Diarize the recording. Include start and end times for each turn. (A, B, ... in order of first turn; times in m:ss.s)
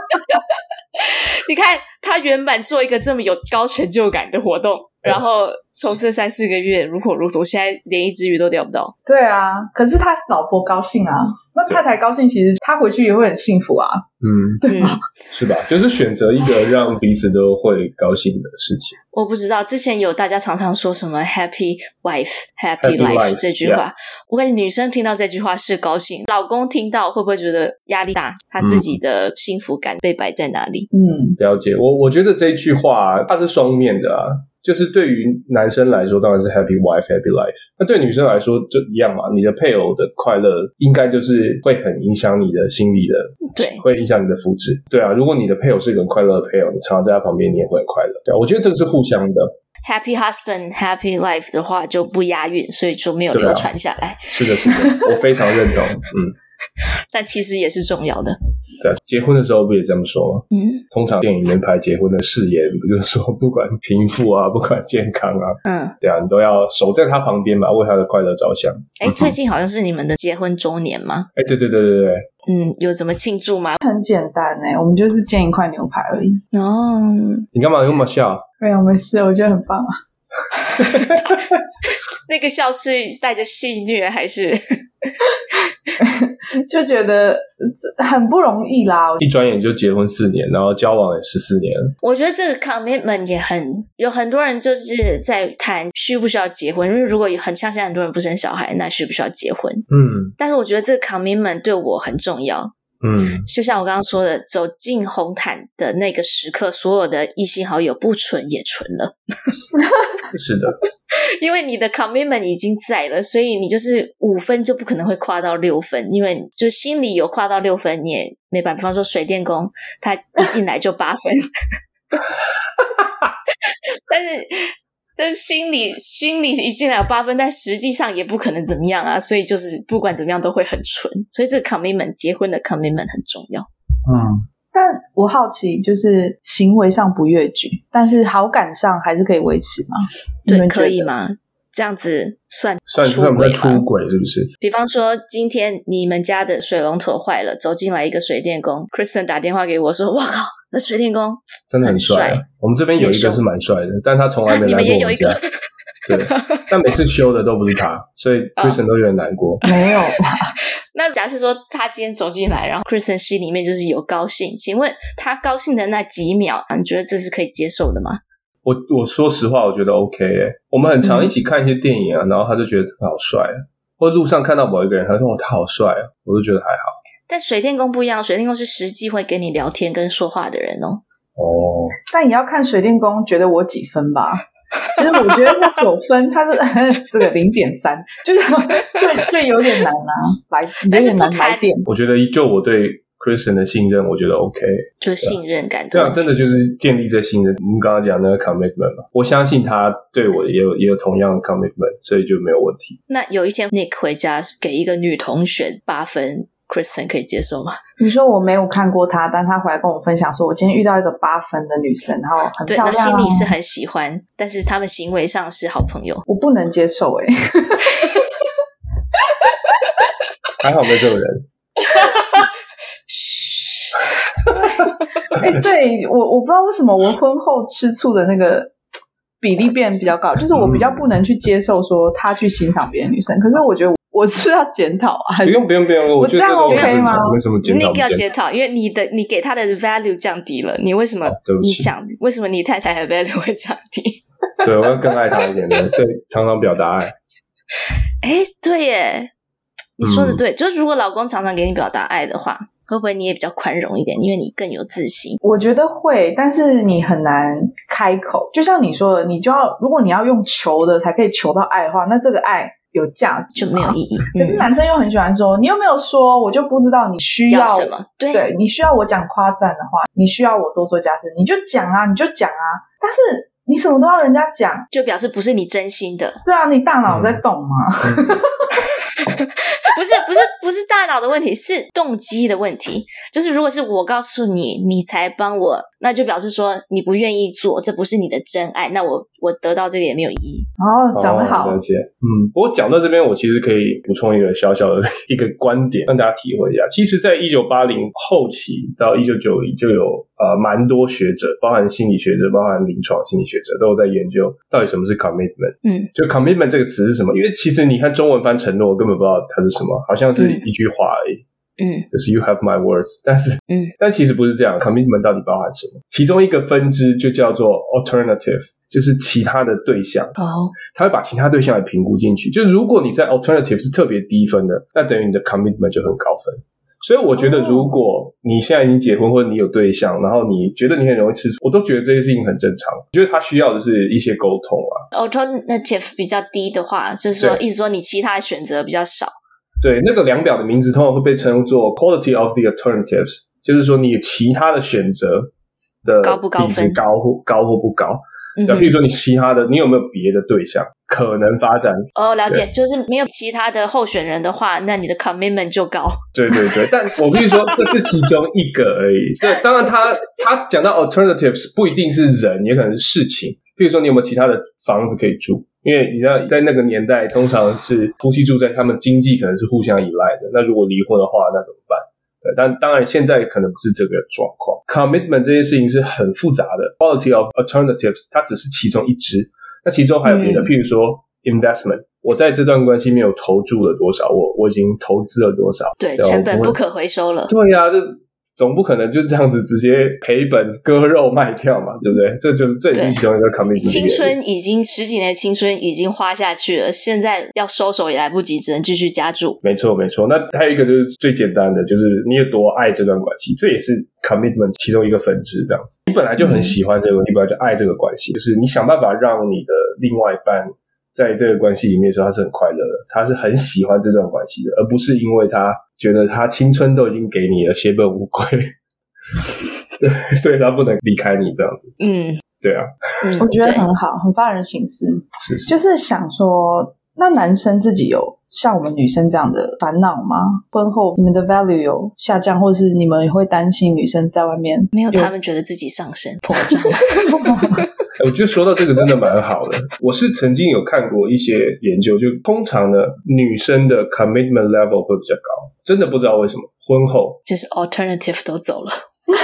0:01.0-0:08.9 A
0:09.0-0:14.0 B
0:14.2-0:14.6 C
0:14.6-0:15.0 B
0:14.7-0:15.0 A
0:15.3-0:19.0 C
0:19.1-0:30.9 A
0:22.8-0:23.8 C
0:28.6-0:29.0 C
0:30.9-0:31.4 B
0:31.4-0:49.5 C
0:43.5-0:43.8 A
0:49.8-0:55.1 A
0:53.3-0:53.7 C
0:54.3-0:56.4 C
0:57.1-0:58.4 A
0:58.8-1:09.3 C
1:00.5-1:00.8 A
1:05.6-1:06.0 A
1:09.0-1:11.3 A
1:11.4-1:12.3 C
1:12.4-1:13.8 A
1:13.8-1:16.4 B
1:16.5-1:17.5 A
1:17.5-1:18.4 C
1:18.6-1:19.9 B
1:20.7-1:25.1 A
1:20.8-1:21.2 C
1:26.0-1:29.2 B
1:29.2-1:31.9 C
1:32.0-1:39.8 A
1:39.9-1:40.3 C
1:40.4-1:42.7 A
1:43.0-1:43.4 C
1:43.4-1:49.1 A
1:50.3-1:50.8 C
1:51.1-2:01.4 A
2:03.6-2:13.7 A
2:14.1-2:14.4 C
2:14.7-2:21.1 B
2:20.5-2:23.9 A
2:22.9-2:24.5 C
2:24.6-2:32.4 A
2:31.7-2:35.4 C
2:33.0-2:33.4 A
2:34.5-2:35.5 A
2:36.0-2:39.6 C
2:36.1-2:36.7 A
2:39.6-2:40.5 B
2:40.9-2:48.2 A
2:48.6-2:57.0 C
2:51.0-2:51.3 A
2:57.3-3:01.0 A
3:01.4-3:02.0 C
3:02.1-3:11.9 B
3:10.9-3:11.7 A
3:11.8-3:15.4 C
3:15.0-3:16.3 A
3:15.9-3:23.0 C
3:23.1-3:27.8 A
3:28.0-3:33.5 B
3:32.6-3:36.2 A
3:36.3-3:38.2 B
3:40.6-3:41.4 C
3:42.0-3:42.4 A
3:43.1-3:44.0 A
3:44.4-3:48.7 B
3:49.4-3:57.4 B
3:50.5-3:51.1 C
3:55.4-3:58.2 C
3:56.7-3:57.1 A
3:57.6-4:04.2 A
4:01.3-4:01.9 C
4:04.6-4:07.1 C
4:08.2-4:09.3 A
4:10.0-4:15.4 A
4:10.0-4:10.4 C
4:15.4-4:34.9 B
4:23.6-4:24.7 A
4:27.5-4:28.4 A
4:34.9-4:36.4 A
4:36.4-4:38.6 B
4:37.1-4:37.4 C
4:38.0-4:38.4 C
4:39.0-4:50.7 A
4:50.8-4:51.8 B
4:51.1-5:11.4 C
5:05.8-5:06.1 A
5:10.4-5:10.6 A
5:11.8-5:12.1 A
5:12.1-5:35.0 C
5:13.7-5:13.9 A
5:20.4-5:20.8 A
5:27.3-5:27.9 B
5:35.1-5:39.3 A
5:39.8-5:45.5 C
5:46.0-5:52.6 C
5:46.2-5:47.0 A
5:48.6-5:49.0 A
5:52.2-5:56.2 A
5:56.3-6:26.8 C
6:20.2-6:20.7 A
6:26.0-6:27.5 A
6:27.5-6:34.4 C
6:32.9-6:39.6 A
6:39.6-6:58.7 C
6:46.4-6:46.7 A
6:59.3-7:01.9 C
7:02.0-7:02.4 A
7:02.6-7:03.4 C
7:03.2-7:03.8 A
7:03.4-7:15.3 B
7:05.4-7:05.7 C
7:14.9-7:17.3 A
7:16.6-7:17.9 B
7:18.2-7:27.4 C
7:27.4-7:29.0 A